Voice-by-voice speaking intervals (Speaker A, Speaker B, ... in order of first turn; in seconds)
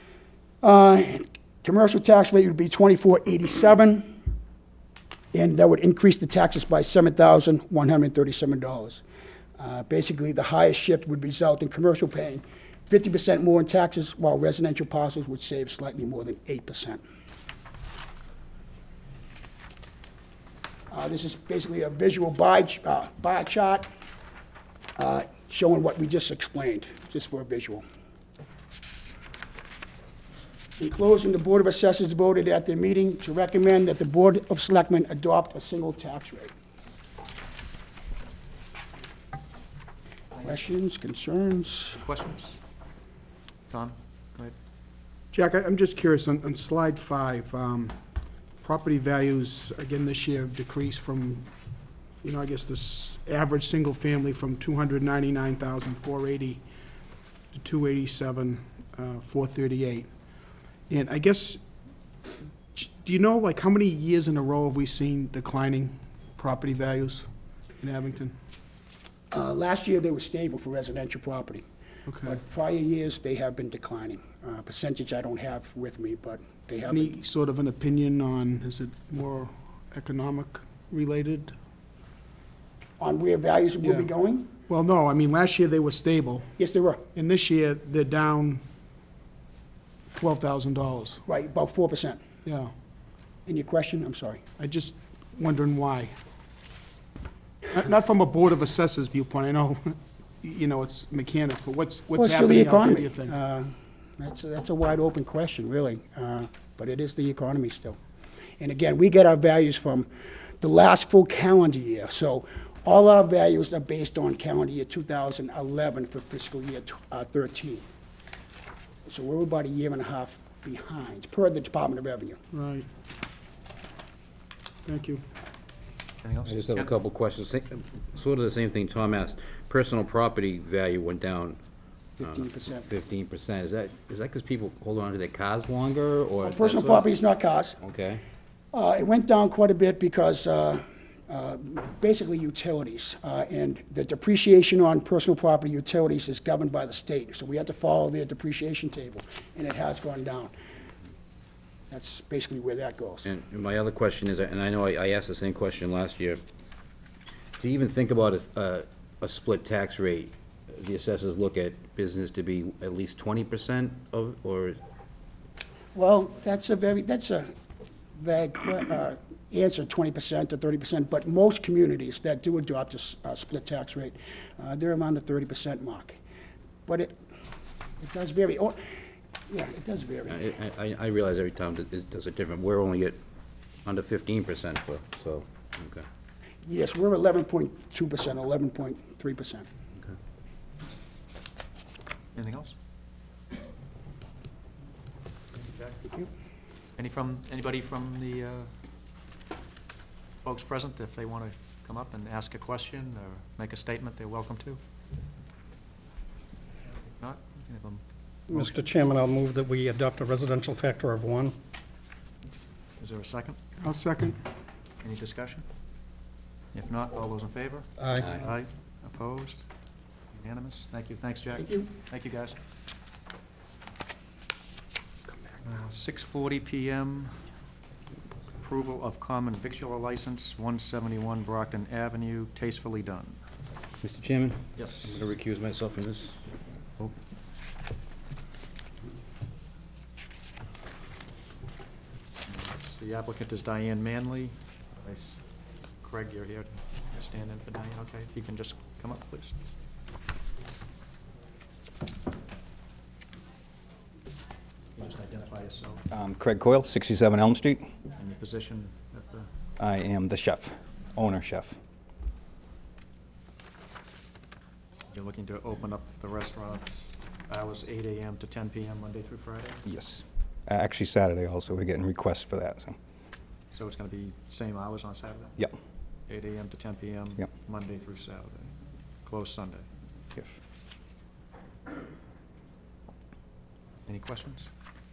Speaker A: 0.6-4.1, 5.3-9.0, 9.6-17.0, 20.9-23.9, 25.0-27.8, 30.8-36.5, 40.4-42.0, 69.3-71.7, 72.2-77.1, 83.0-84.5, 86.6-87.0, 91.3-92.2, 93.5-94.4, 102.1-108.0, 108.6-110.1, 110.6-117.9, 119.1-122.4, 132.2-132.9, 136.4-137.8, 138.7-150.5, 151.9-153.3, 165.9-167.5, 168.2-176.2, 176.9-177.2, 178.0-178.8, 179.5-180.4, 186.7-189.7, 196.0-196.3
Speaker B: 42.0-42.6, 43.7-44.5, 126.2-126.9, 192.3-192.7, 197.0-198.7, 200.4-204.8, 207.1-208.0, 213.0-213.6, 215.0-215.6, 216.7-219.6, 220.3-222.6, 225.7-227.4, 228.6-233.4, 234.8-235.2, 242.5-245.4, 246.0-249.6, 254.9-256.0, 258.2-259.5, 265.1-269.8, 273.7-275.6, 276.3-278.7, 279.2-279.9, 284.1-284.7
Speaker C: 45.3-48.0, 48.6-51.5, 52.2-56.6, 57.5-60.1, 60.9-61.6, 62.8-67.3, 67.8-68.3, 72.1-72.4, 76.9-81.5, 83.8-84.1, 84.7-86.5, 87.1-88.6, 90.1-91.2, 92.5-92.7, 94.6-96.1, 97.7-103.4, 122.5-122.9, 124.9-125.2, 213.8-214.4
Speaker D: 126.5-131.6, 132.2-137.1, 137.8-138.2, 153.2-156.4, 157.6-164.8, 180.3-183.2, 183.8-186.1, 234.0-236.4
Speaker E: 208.5-211.6, 218.0-218.3
Speaker F: 256.1-257.9, 259.8-261.8, 269.9-273.0